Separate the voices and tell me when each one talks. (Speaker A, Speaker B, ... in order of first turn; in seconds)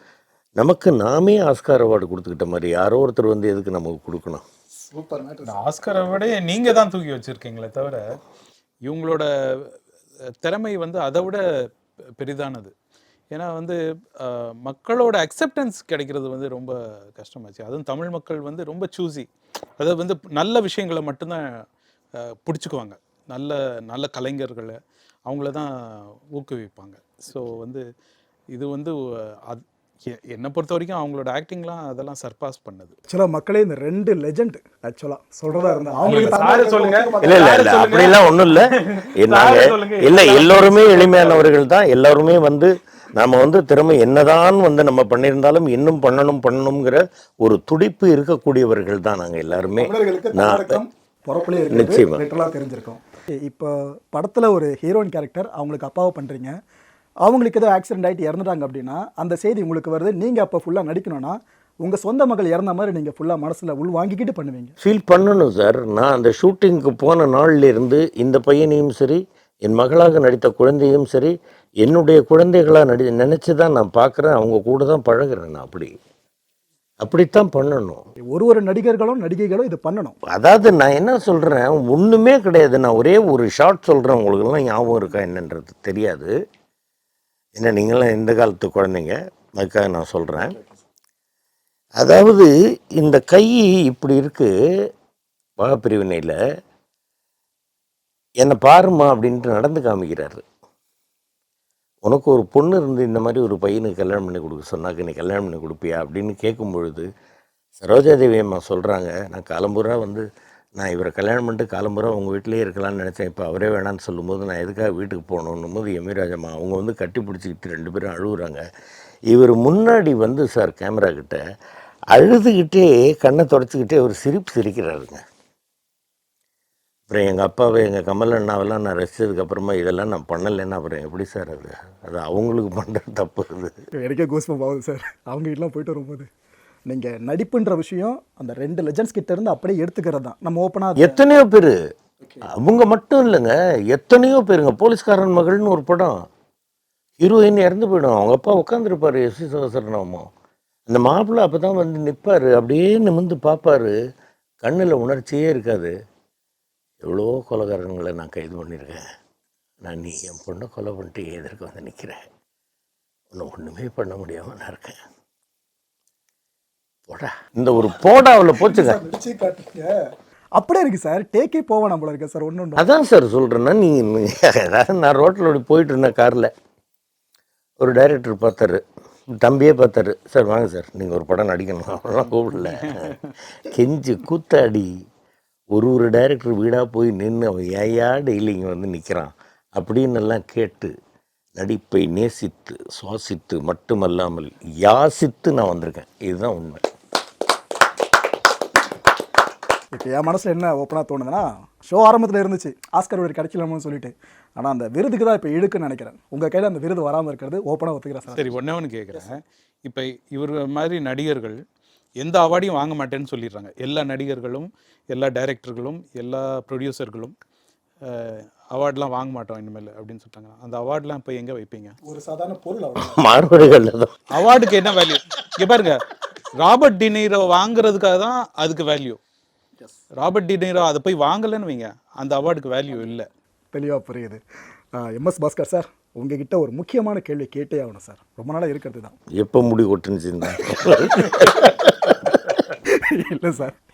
Speaker A: 0.6-4.4, 37.2-50.8, 51.7-52.2, 64.8-75.9, 77.0-78.0, 80.3-86.3, 87.6-90.6, 92.0-94.5, 95.6-96.4, 98.4-100.4, 102.1-107.1, 107.8-110.2, 110.8-118.6, 119.3-121.4, 122.1-125.2, 127.1-133.7, 141.0-141.8, 142.6-146.2, 147.2-150.3, 150.9-153.9, 154.6-155.9, 157.0-159.0, 159.8-162.2, 163.3-165.0, 167.1-169.0, 172.8-176.5, 177.8-178.8, 179.3-183.1, 183.7-184.9, 185.7-190.9, 191.6-196.8, 223.0-224.1, 239.4-242.1
Speaker B: 4.9-5.6, 33.1-37.5, 49.8-56.5, 57.2-64.7, 78.3-80.2, 134.0-136.3, 136.9-141.2, 168.6-169.9, 170.6-172.8, 199.9-208.6, 222.1-223.2, 233.7-234.4, 234.9-239.2, 242.9-243.8
Speaker C: 5.5-8.0, 8.9-9.7, 10.4-11.4, 12.2-12.7, 13.3-19.3, 19.8-21.6, 22.2-27.8, 28.5-33.0, 36.0-41.5, 182.6-183.3, 208.3-211.6, 212.2-217.3, 218.0-222.0, 224.3-226.0, 226.6-229.2, 230.2-233.3